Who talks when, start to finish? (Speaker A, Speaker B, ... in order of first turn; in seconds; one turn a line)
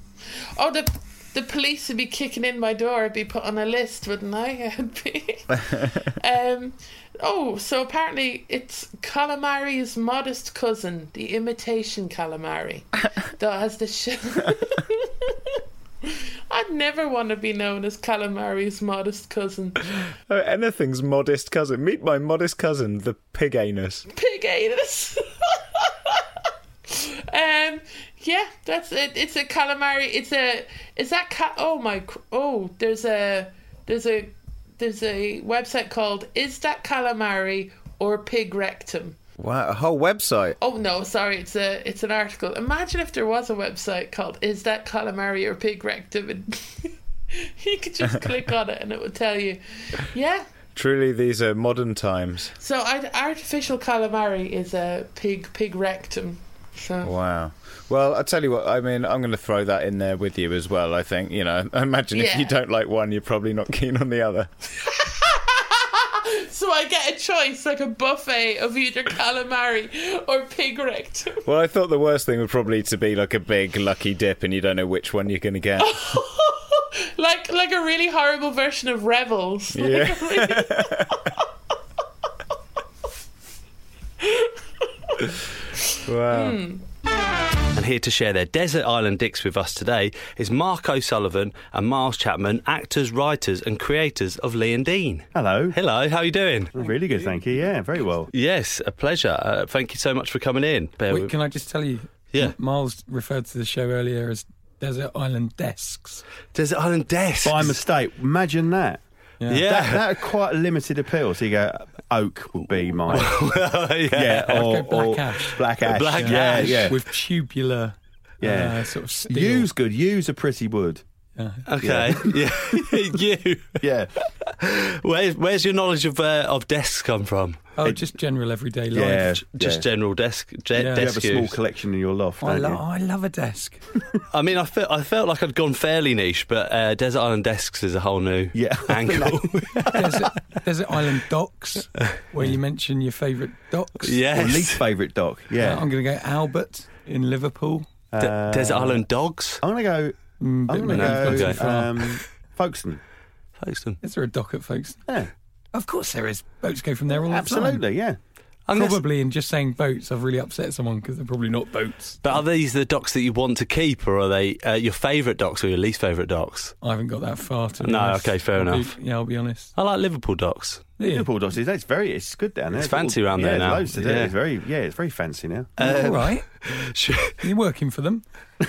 Speaker A: 0.6-20.0
Speaker B: 20.3-24.1
Speaker A: 24.1-39.2
Speaker B: 39.4-40.6
Speaker A: 40.6-50.5
Speaker B: 50.8-52.5
Speaker A: 52.6-57.1
Speaker B: 57.0-64.5
Speaker A: 62.1-62.5
Speaker A: 64.8-71.5
Speaker B: 71.5-76.0
Speaker A: 75.8-81.4
Speaker B: 79.7-81.2
Speaker A: 84.2-84.5
Speaker B: 86.0-86.6
Speaker A: 86.3-86.8
Speaker C: 87.7-96.7
Speaker D: 95.3-95.8
Speaker D: 96.7-98.3
Speaker C: 98.3-101.3
Speaker E: 101.1-106.2
Speaker C: 106.5-107.8
Speaker D: 107.4-109.0
Speaker E: 109.4-109.6
Speaker C: 109.5-110.3
Speaker D: 109.6-113.5
Speaker C: 113.1-114.8
Speaker D: 114.1-117.0
Speaker E: 114.4-119.7
Speaker C: 115.3-117.0
Speaker D: 118.4-121.0
Speaker E: 121.3-122.2
Speaker C: 121.7-127.7
Speaker D: 121.8-122.4
Speaker D: 123.8-124.1
Speaker E: 127.8-129.4
Speaker D: 127.8-128.2
Speaker D: 128.9-129.9
Speaker C: 129.4-131.6
Speaker E: 130.8-131.2
Speaker D: 130.9-132.8
Speaker E: 132.4-133.8
Speaker C: 134.3-140.1
Speaker D: 138.5-140.4
Speaker E: 139.9-144.3
Speaker C: 144.0-144.9
Speaker D: 144.3-145.9
Speaker E: 145.6-147.9
Speaker D: 148.1-149.1
Speaker C: 148.2-149.6
Speaker D: 149.6-153.0
Speaker E: 150.4-152.2
Speaker C: 150.9-151.7
Speaker C: 153.6-154.0
Speaker E: 154.0-155.0
Speaker D: 155.1-155.3
Speaker E: 155.7-157.8
Speaker D: 157.1-158.2
Speaker C: 158.7-159.0
Speaker E: 158.7-162.4
Speaker C: 162.2-166.8
Speaker E: 166.8-169.7
Speaker C: 167.8-170.9
Speaker E: 171.0-171.3
Speaker D: 171.1-175.7
Speaker C: 172.8-174.3
Speaker E: 175.8-176.5
Speaker C: 175.8-177.4
Speaker E: 177.4-178.2